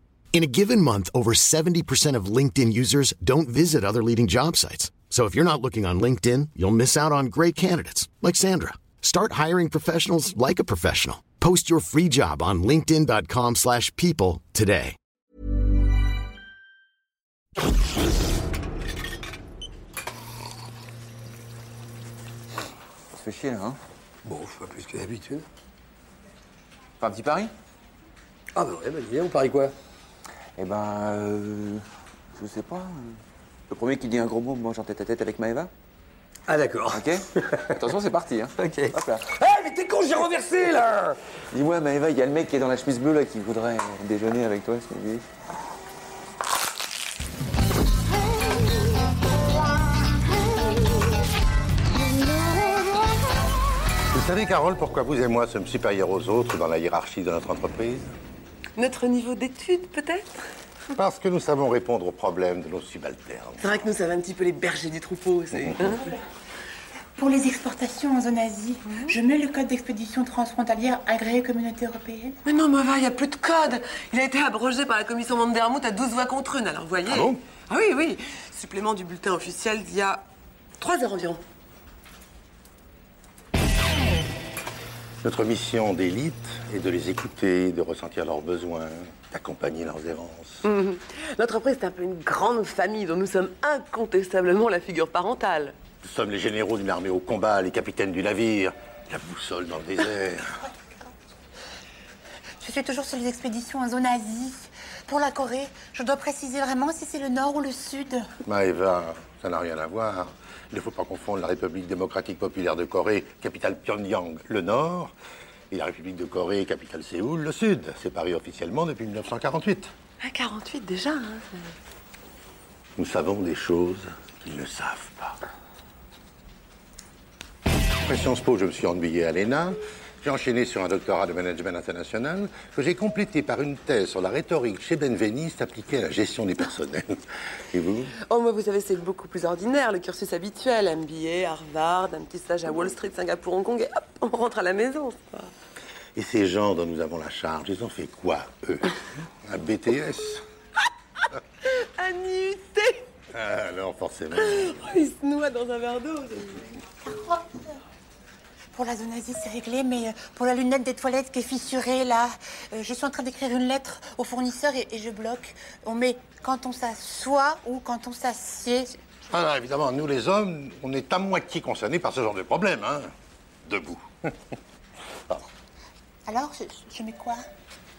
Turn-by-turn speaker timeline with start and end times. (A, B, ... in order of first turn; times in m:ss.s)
0:00.3-0:15.0 A
0:23.1-0:23.8 B
0:24.2-0:25.4 C
0:27.0-0:27.5 B
0:28.6-0:29.7 C
0:30.6-0:31.8 B
0:32.3-0:35.7 B
0:36.5-0:38.0 C
0:36.9-0:39.2 B
0:38.6-0:41.2 C
0:41.5-0:45.2 B
0:54.1-0:58.1 D
0:58.8-1:00.4 E
1:01.0-1:03.6 D
1:03.6-1:06.1 E
1:07.2-1:12.4 F
1:12.4-1:20.2 E
1:20.8-1:21.4 E
1:25.2-1:30.6 D
1:30.6-1:35.8 E
1:36.0-1:40.6 D
1:42.6-1:48.2 F
1:48.4-1:55.1 D
1:55.7-1:59.9 D
2:00.2-2:01.7 E
2:03.0-2:05.4 D
2:08.1-2:17.2 D
2:17.7-2:18.1 D
2:18.2-2:25.5 E
2:26.2-2:28.9 D
2:29.4-2:30.4 D
2:31.6-2:33.0 E
2:33.3-2:34.6 D
2:34.4-2:36.6 E
2:37.0-2:37.8 F
2:38.7-2:49.0 F
2:49.3-2:53.1 D
2:53.6-2:54.3 D
2:56.3-2:57.4 F